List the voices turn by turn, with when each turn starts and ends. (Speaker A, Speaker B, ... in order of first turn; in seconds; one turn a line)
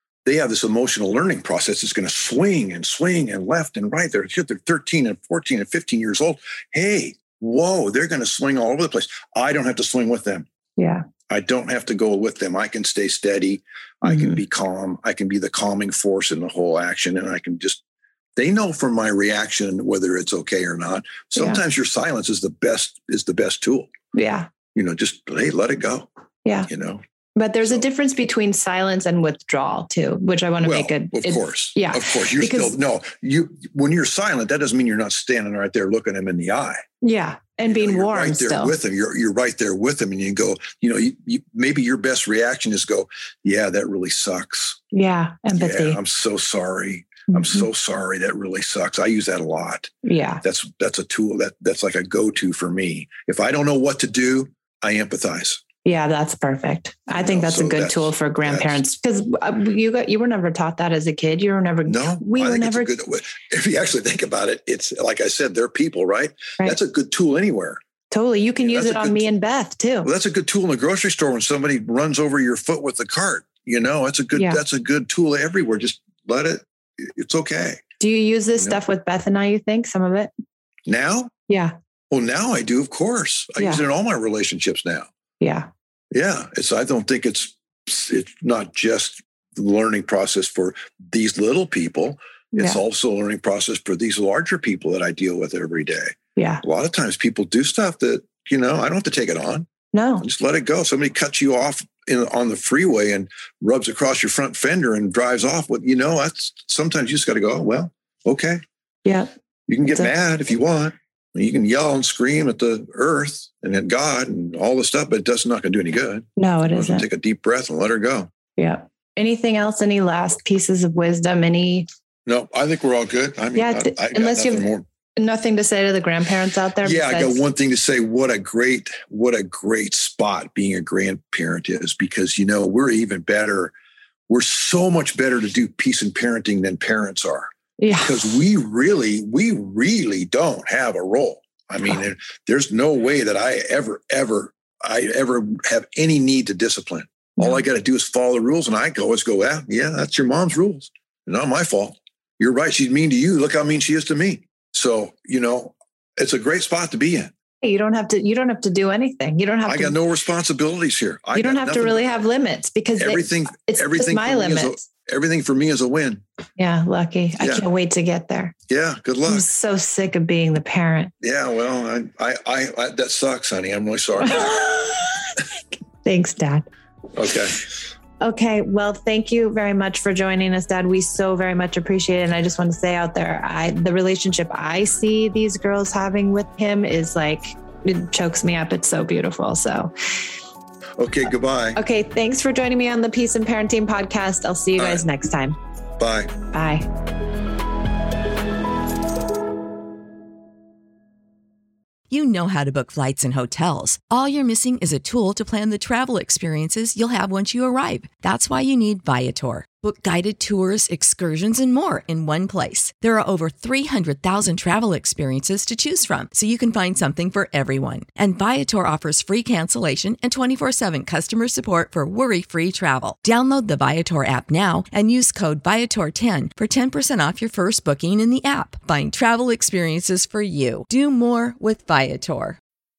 Speaker A: 0.2-10.5
Speaker B: 10.8-11.1
Speaker A: 11.3-17.8
Speaker B: 14.0-14.4
Speaker A: 18.4-23.9
Speaker B: 21.3-21.6
Speaker B: 24.1-24.5
Speaker A: 24.7-26.1
Speaker A: 26.7-27.0
Speaker B: 27.4-32.7
Speaker A: 30.6-36.8
Speaker B: 37.0-38.7
Speaker A: 37.6-44.8
Speaker B: 44.9-46.0
Speaker A: 45.5-55.6
Speaker B: 47.3-47.6
Speaker B: 50.0-50.4
Speaker B: 55.8-62.9
Speaker A: 57.1-58.8
Speaker A: 61.9-67.8
Speaker B: 68.1-70.1
Speaker A: 68.6-69.3
Speaker A: 70.0-77.8
Speaker B: 74.3-74.6
Speaker B: 78.0-80.3
Speaker A: 80.8-81.3
Speaker B: 81.5-81.7
Speaker A: 82.1-85.1
Speaker B: 83.6-83.8
Speaker B: 85.4-85.7
Speaker A: 86.1-99.7
Speaker B: 92.5-92.8
Speaker B: 96.3-96.6
Speaker B: 99.9-100.2
Speaker A: 100.2-108.6
Speaker B: 109.0-109.3
Speaker A: 109.7-118.3
Speaker B: 109.8-110.1
Speaker B: 116.4-117.1
Speaker B: 118.6-121.9
Speaker A: 122.2-124.8
Speaker B: 123.5-127.4
Speaker A: 126.8-133.7
Speaker A: 134.3-137.5
Speaker B: 137.8-138.2
Speaker A: 138.0-157.3
Speaker B: 147.4-147.6
Speaker B: 157.6-159.9
Speaker A: 159.7-162.1
Speaker B: 161.3-164.8
Speaker A: 163.0-166.2
Speaker B: 166.6-168.5
Speaker A: 167.4-167.7
Speaker A: 168.7-169.5
Speaker B: 169.2-171.1
Speaker A: 171.2-174.7
Speaker B: 174.2-174.9
Speaker B: 176.0-176.7
Speaker A: 177.1-177.7
Speaker B: 178.2-189.9
Speaker A: 191.0-191.8
Speaker B: 191.7-195.6
Speaker A: 194.8-195.0
Speaker A: 196.0-196.3
Speaker B: 196.5-196.9
Speaker C: 202.1-232.6